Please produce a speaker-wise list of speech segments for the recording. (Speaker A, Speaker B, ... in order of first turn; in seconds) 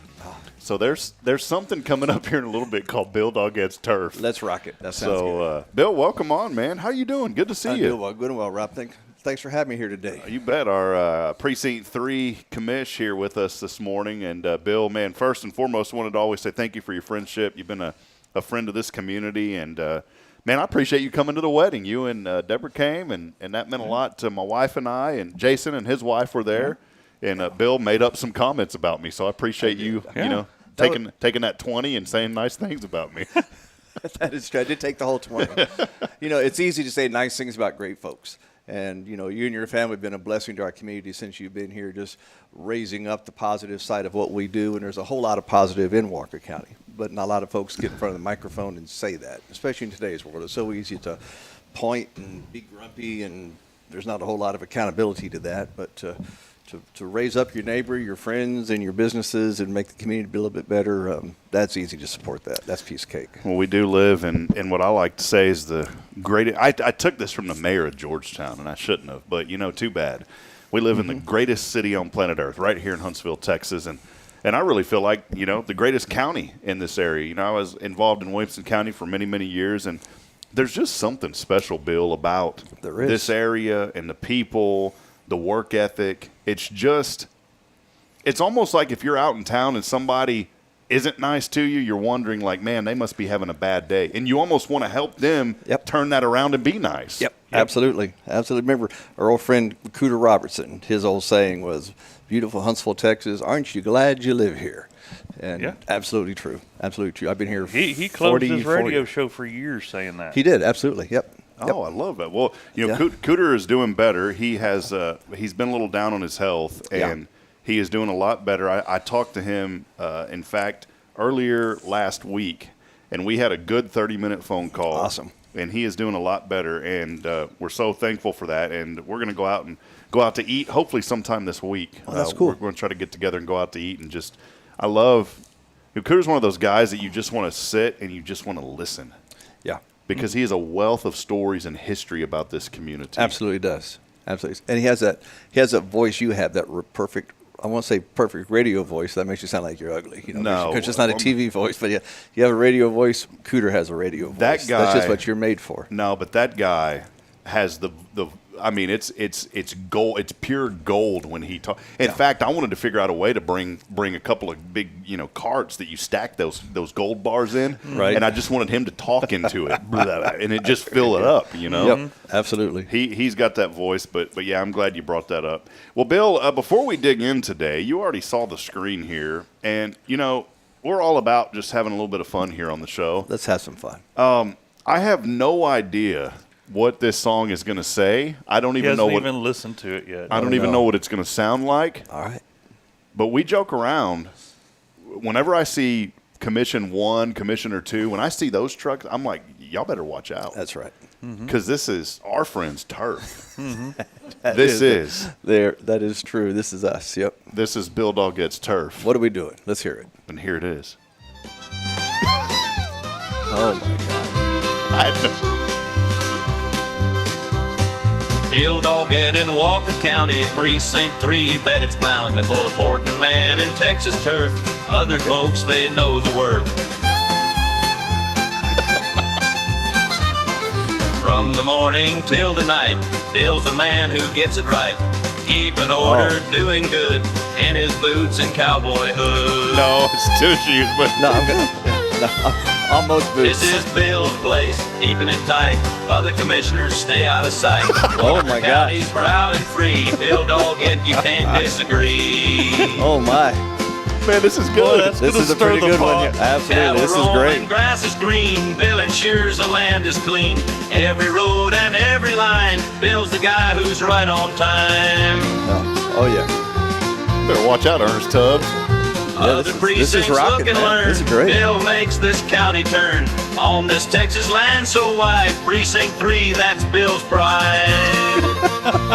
Speaker A: 0.6-4.2, 4.9-8.0, 10.1-33.4, 63.4-80.0, 80.5-87.3, 88.2-97.3, 111.6-135.4, 135.9-139.2, 140.1-143.4, 150.3-151.3, 154.3-155.2, 155.9-172.0, 172.9-183.3, 184.2-189.3, 190.3-192.1, 193.2-194.3, 195.0-200.6, 201.4-203.4, 204.5-205.3, 207.5-209.1, 210.3-211.0, 214.9-215.5, 239.7-241.6, 254.2-255.2, 267.4-268.7
Speaker B: 4.1-5.5, 7.7-10.3, 29.6-31.0, 34.0-51.2, 51.7-63.4, 82.8-83.3, 97.2-104.9, 105.4-109.1, 110.3-111.8, 124.9-125.3, 132.1-132.6, 143.2-155.9, 167.9-168.2, 171.7-172.9, 183.3-184.0, 190.3-190.9, 192.1-192.4, 200.5-200.9, 204.4-207.4, 209.0-210.1, 213.5-214.4, 236.0-236.4, 241.2-243.8, 248.1-249.1, 252.9-253.6, 255.1-257.7, 265.5-266.5, 269.4-271.7
Speaker C: 30.1-30.4, 107.6-110.4, 167.9-168.2, 171.7-172.1, 188.8-190.7, 201.2-201.5, 203.6-204.0, 254.7-256.4
Speaker D: 218.5-226.8, 231.2-239.9, 243.4-253.1, 256.6-265.6, 269.4-278.7